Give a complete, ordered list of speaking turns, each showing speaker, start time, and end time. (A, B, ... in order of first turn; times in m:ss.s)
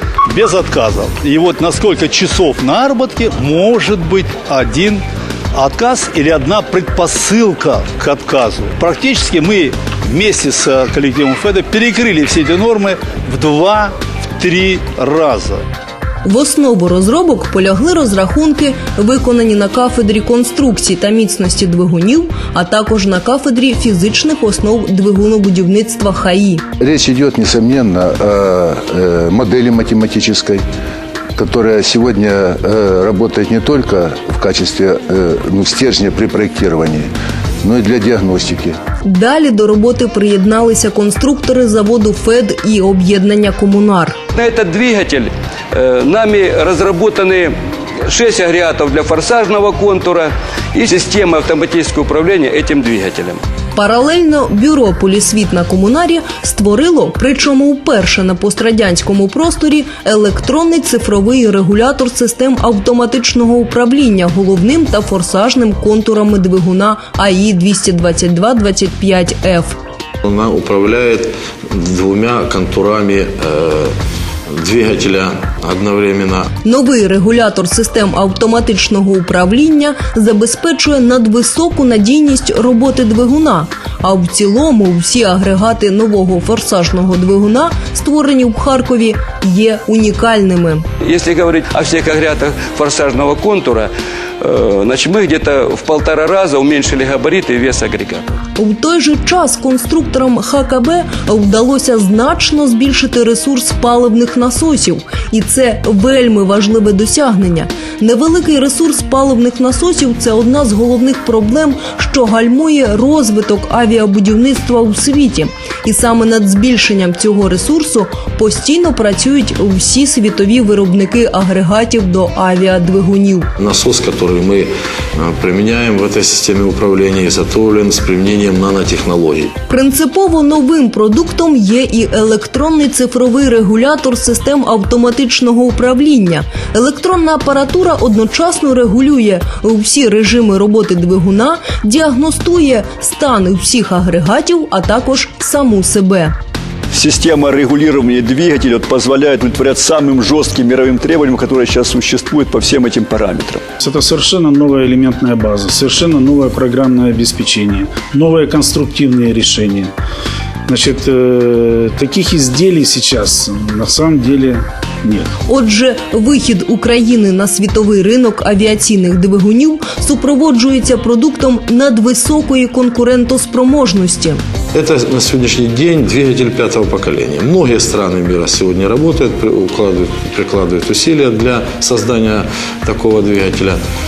0:00.3-0:15.6 A
0:16.2-0:26.6 B
0:26.8-0:30.6 C
0:31.4-0:37.1 C
0:37.6-0:38.8 C
0:39.0-0:44.2 B
0:44.3-0:53.4 D
0:53.8-1:09.8 B
1:10.2-1:13.9 E
1:14.6-1:16.5 E
1:16.6-1:30.8 B
1:31.0-1:38.4 D
1:38.6-2:03.5 B
2:03.6-2:09.5 E
2:09.7-2:26.3 B
2:26.9-2:33.6 F
2:33.8-2:39.9 G
2:40.7-2:45.3 G
2:45.5-2:54.4 B
2:54.7-3:03.8 E